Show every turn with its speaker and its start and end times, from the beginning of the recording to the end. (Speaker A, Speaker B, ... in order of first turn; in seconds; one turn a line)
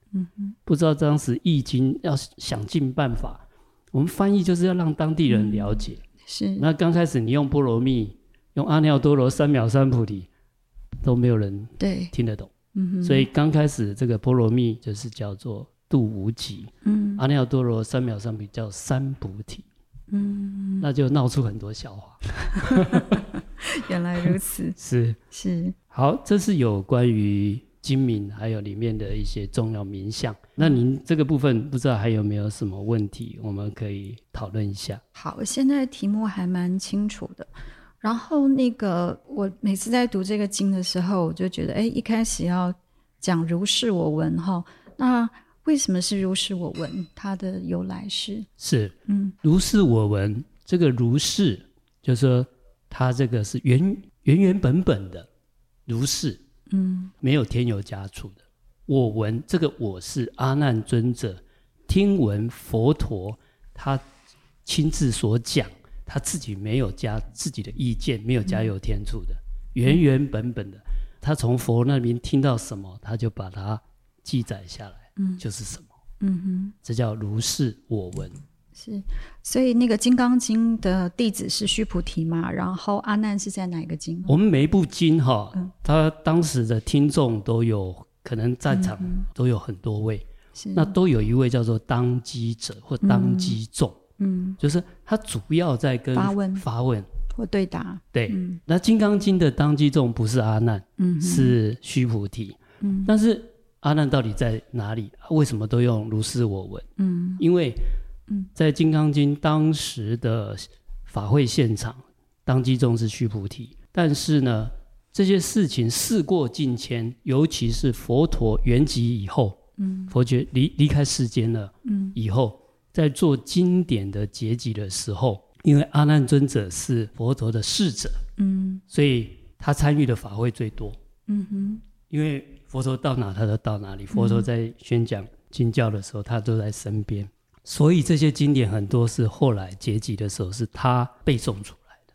Speaker A: 0.1-0.6
Speaker B: 0.7-6.0
Speaker A: 5.3-6.7
Speaker B: 6.6-10.3
Speaker B: 11.0-12.5
Speaker A: 11.8-12.1
Speaker A: 12.7-13.3
Speaker B: 13.0-19.7
Speaker A: 16.8-17.2
Speaker A: 20.1-20.9
Speaker B: 20.8-23.2
Speaker A: 22.4-24.8
Speaker B: 24.2-25.2
Speaker A: 25.3-25.8
Speaker B: 25.9-35.0
Speaker A: 35.1-37.5
Speaker A: 38.0-48.5
Speaker B: 48.6-55.3
Speaker A: 49.1-49.4
Speaker B: 55.9-56.4
Speaker A: 56.7-57.1
Speaker B: 57.2-64.0
Speaker B: 64.7-75.9
Speaker A: 75.2-75.4
Speaker A: 76.2-76.8
Speaker B: 76.8-78.4
Speaker A: 78.8-84.3
Speaker B: 84.3-94.0
Speaker A: 88.7-89.3
Speaker A: 90.6-91.0
Speaker A: 93.0-93.6
Speaker A: 94.2-94.6
Speaker B: 94.6-97.1
Speaker A: 96.2-96.7
Speaker A: 97.3-98.6
Speaker B: 98.1-106.9
Speaker A: 101.0-101.6
Speaker A: 102.8-103.1
Speaker A: 107.0-107.4
Speaker B: 107.4-107.8
Speaker B: 108.6-128.2
Speaker A: 119.8-120.1
Speaker A: 121.8-122.2
Speaker A: 128.4-128.8
Speaker B: 128.9-131.0
Speaker A: 131.3-131.8
Speaker B: 132.1-142.0
Speaker A: 134.1-134.5